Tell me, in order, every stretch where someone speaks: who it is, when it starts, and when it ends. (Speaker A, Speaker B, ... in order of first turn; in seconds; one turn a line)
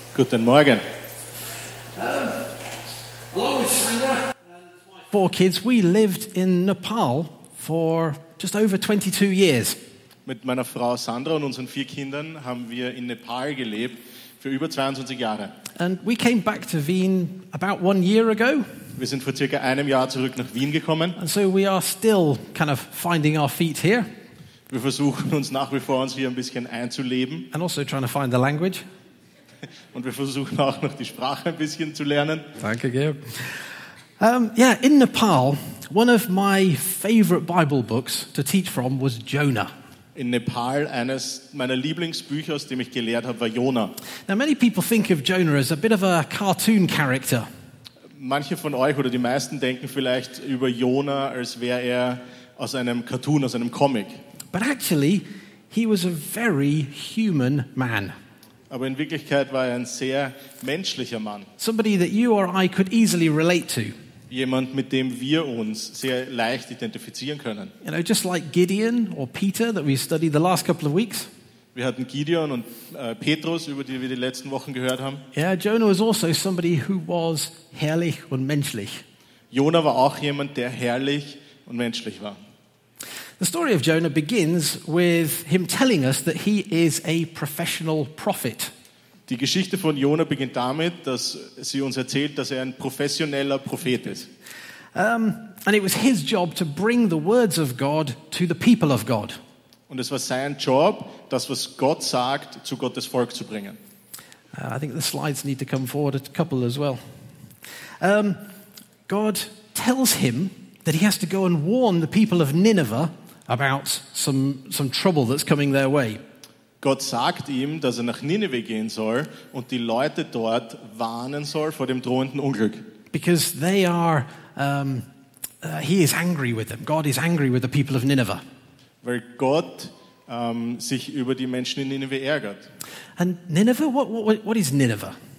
Speaker A: 0.1-0.8
Speaker B: 1.9-2.6
Speaker B: 3.3-9.8
Speaker A: 10.3-15.6
Speaker B: 15.8-18.9
Speaker A: 19.0-21.2
Speaker B: 21.2-24.1
Speaker A: 24.7-27.5
Speaker B: 27.5-28.8
Speaker A: 29.9-32.5
Speaker B: 32.6-39.7
Speaker A: 40.1-44.0
Speaker B: 44.3-47.5
Speaker A: 48.1-54.2
Speaker B: 54.5-58.1
Speaker A: 58.7-61.5
Speaker B: 61.6-64.0
Speaker A: 64.3-67.7
Speaker B: 67.8-71.3
Speaker A: 71.7-75.2
Speaker B: 75.3-79.0
Speaker A: 79.5-82.4
Speaker B: 83.4-88.7
Speaker A: 89.3-94.3
Speaker B: 95.0-99.4
Speaker A: 99.9-103.8
Speaker B: 104.5-107.0
Speaker B: 108.0-108.4
Speaker B: 109.1-116.2
Speaker A: 116.8-122.9
Speaker B: 123.1-125.1
Speaker B: 125.6-128.4
Speaker A: 129.0-132.7
Speaker B: 133.2-135.2